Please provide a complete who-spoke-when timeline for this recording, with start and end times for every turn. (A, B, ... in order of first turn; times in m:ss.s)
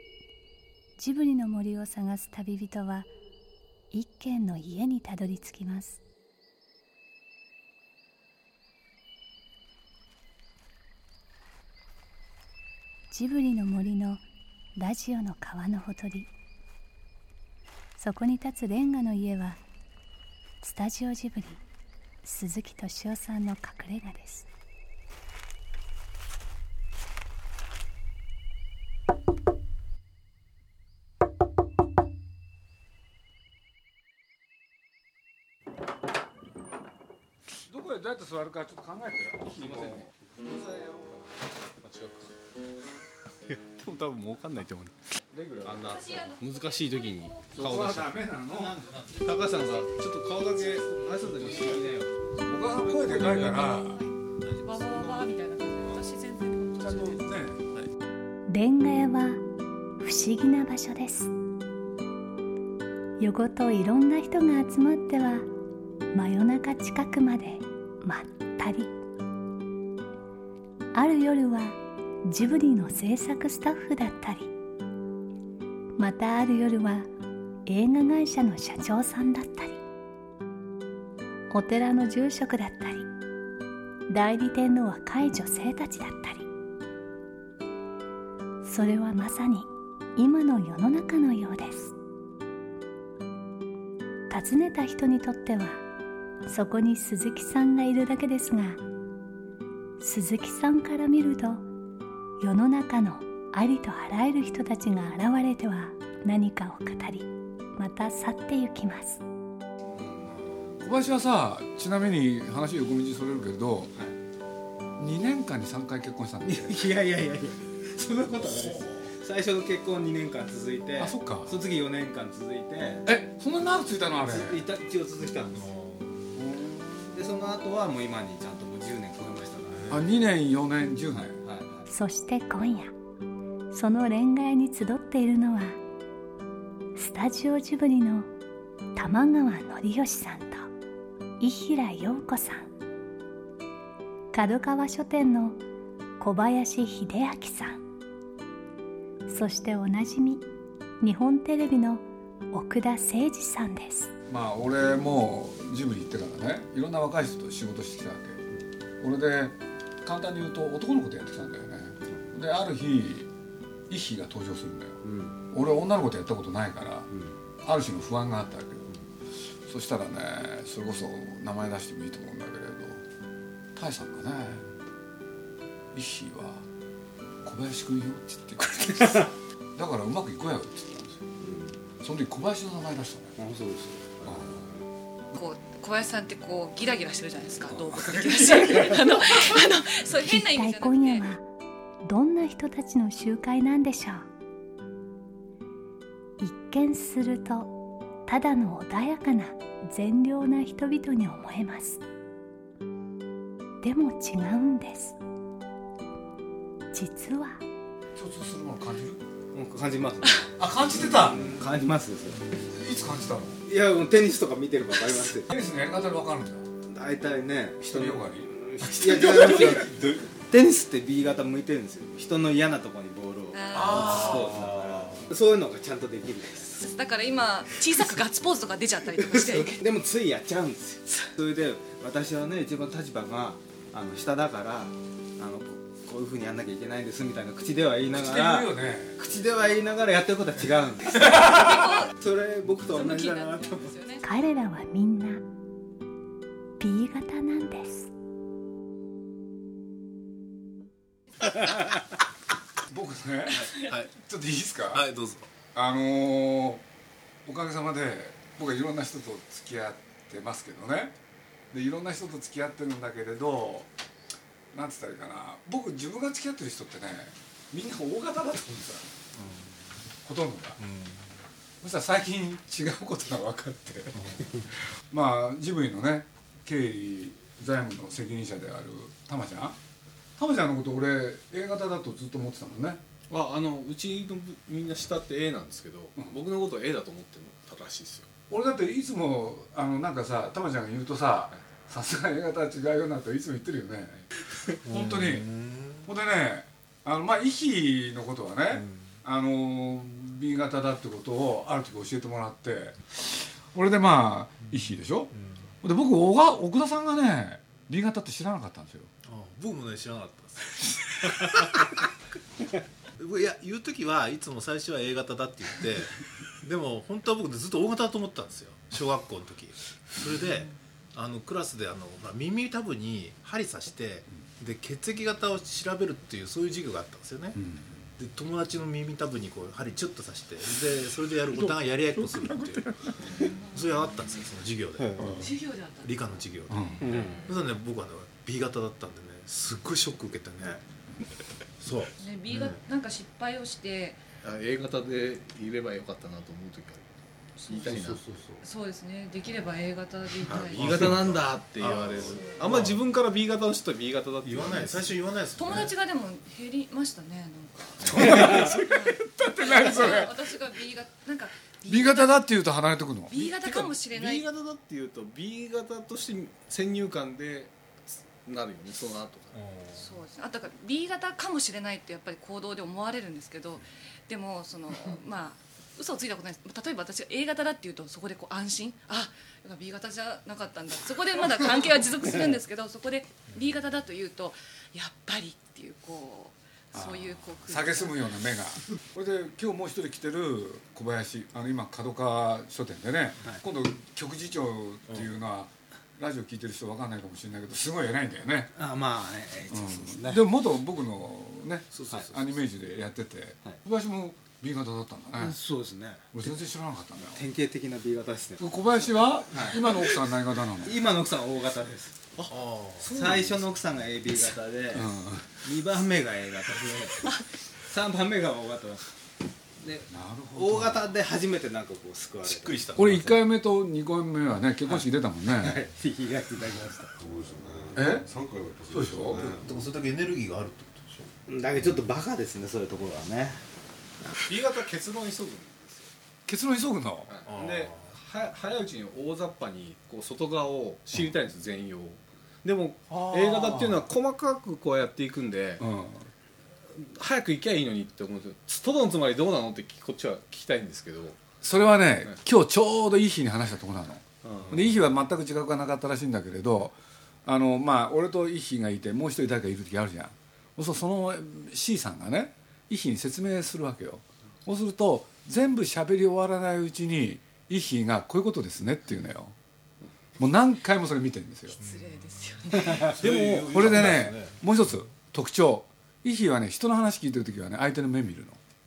0:01.0-0:03.1 A
0:03.9-0:06.0 A
0:13.1-0:14.2 A
0:14.8-0:16.3 A
0:18.0-0:19.6 A
0:20.6-0:21.6 A
0:22.2-0:24.5 A
0:37.5-0:40.1 B
0:39.4-0:42.4 C
0:43.4-0:45.1 C
0:45.3-0:45.9 B
0:45.6-0:48.2 C
0:45.7-0:47.5 D
0:47.5-0:48.9 B
0:49.1-0:52.1 C
0:52.4-0:54.0 B
0:54.5-0:57.3 D
0:54.6-0:55.2 E
0:56.8-0:57.6 B
0:58.5-0:59.4 A
1:00.0-1:01.3 A
1:03.2-1:05.5 A
1:06.1-1:08.9 A
1:10.9-1:14.5 A
1:16.0-1:17.1 A
1:17.6-1:19.8 A
1:21.5-1:23.1 A
1:24.1-1:26.5 A
1:28.6-1:31.9 A
1:34.3-1:35.8 A
1:36.4-1:38.8 A
1:40.0-1:41.6 A
1:42.4-1:49.2 A
1:49.9-1:50.4 F
1:50.2-1:50.8 E
1:50.8-1:53.9 B
1:55.0-1:56.9 B
1:56.4-2:03.1 F
1:58.6-1:59.0 E
2:01.0-2:01.6 B
2:03.0-2:04.6 B
2:04.2-2:05.7 F
2:05.5-2:06.3 E
2:06.3-2:07.2 B
2:07.1-2:09.8 F
2:09.7-2:10.1 E
2:09.9-2:11.4 B
2:11.4-2:11.9 F
2:11.9-2:12.9 A
2:13.7-2:15.8 A
2:16.9-2:18.3 A
2:18.9-2:20.7 A
2:21.4-2:22.7 A
2:24.3-2:25.6 A
2:26.2-2:27.8 A
2:29.3-2:30.4 A
2:31.0-2:34.1 A
2:34.3-2:38.4 B
2:39.0-2:43.3 B
2:43.9-2:45.0 B
2:45.0-2:45.4 F
2:45.5-2:47.1 B
2:47.1-2:47.4 F
2:47.6-2:48.9 B
2:49.6-2:53.0 B
2:53.7-2:54.6 B
2:55.9-2:56.6 B
2:57.4-3:01.2 B
3:01.4-3:01.8 F
3:02.0-3:03.3 B
3:03.4-3:04.8 F
3:04.2-3:04.7 B
3:05.3-3:11.2 D
3:07.7-3:09.2 B
3:10.1-3:11.4 A
3:12.0-3:14.3 A
3:16.4-3:17.7 A
3:18.2-3:22.0 A
3:23.8-3:25.2 A
3:26.9-3:27.6 A
3:28.1-3:29.2 B
3:29.5-3:32.4 F
3:30.6-3:31.4 B
3:32.6-3:33.6 B
3:33.6-3:35.5 F
3:35.4-3:36.6 B
3:36.8-3:46.9 F
3:37.8-3:38.5 B
3:39.2-3:40.0 B
3:39.2-3:39.9 D
3:43.5-3:44.4 D
3:43.7-3:44.6 B
3:43.9-3:45.3 E
3:46.8-3:49.9 D
3:49.2-4:03.9 F
3:58.1-3:59.2 B
4:01.2-4:01.9 B
4:01.3-4:02.1 D
4:02.7-4:04.2 D
4:04.2-4:05.4 A
4:06.8-4:08.1 A
4:12.9-4:15.0 B
4:13.7-4:14.1 E
4:14.9-4:15.5 E
4:15.7-4:16.8 B
4:17.4-4:21.1 B
4:21.7-4:23.9 B
4:24.7-4:29.0 B
4:29.3-4:29.8 E
4:30.2-4:30.8 B
4:30.8-4:31.3 E
4:31.8-4:39.8 B
4:34.2-4:34.4 E
4:40.4-4:43.0 B
4:43.3-4:48.3 C
4:48.5-4:54.2 B
4:54.8-5:05.3 B
4:54.9-4:56.1 E
5:05.4-5:05.6 E
5:05.8-5:09.1 B
5:09.2-5:12.0 E
5:11.0-5:11.6 B
5:13.2-5:27.6 E
5:27.6-5:27.9 B
5:28.2-5:40.8 E
5:32.2-5:32.9 B
5:33.3-5:34.1 D
5:35.0-5:35.5 F
5:35.2-5:35.5 B
5:35.4-5:36.2 D
5:36.7-5:37.0 B
5:37.0-5:37.4 F
5:37.0-5:37.4 C
5:41.8-5:42.8 E
5:42.2-5:44.2 D
5:44.4-5:47.1 C
5:47.6-5:48.0 D
5:47.7-5:48.2 C
5:47.8-5:48.6 E
5:48.6-5:52.6 D
5:50.4-5:53.0 E
5:50.6-5:55.2 C
5:54.4-5:55.9 E
5:55.6-6:02.4 D
5:58.0-6:00.3 B
6:01.9-6:03.3 B
6:03.3-6:04.5 D
6:03.3-6:09.5 C
6:09.5-6:10.1 E
6:09.9-6:28.2 D
6:26.9-6:38.7 B
6:38.7-6:40.4 F
6:39.7-6:45.6 B
6:41.9-6:42.5 E
6:45.4-6:46.5 F
6:46.3-6:47.4 B
6:47.3-6:48.7 F
6:48.6-6:51.0 B
6:49.5-6:50.0 F
6:50.8-6:52.3 F
6:52.5-6:53.2 E
6:53.0-6:59.0 F
6:53.1-6:53.6 C
6:54.9-6:55.5 B
6:59.8-7:02.8 F
7:00.1-7:01.1 B
7:02.4-7:03.3 E
7:02.9-7:05.8 B
7:04.8-7:07.1 F
7:07.2-7:09.8 G
7:08.0-7:08.3 B
7:08.9-7:09.5 B
7:09.3-7:11.3 E
7:11.5-7:13.6 F
7:14.4-7:16.1 C
7:16.4-7:17.4 B
7:17.3-7:25.8 C
7:17.4-7:18.1 E
7:23.1-7:24.0 B
7:25.8-7:26.3 B
7:26.9-7:31.4 C
7:31.6-7:49.5 B
7:34.4-7:34.8 C
7:50.4-7:51.8 B
7:51.8-7:53.2 D
7:51.8-7:54.6 E
7:53.1-7:58.6 B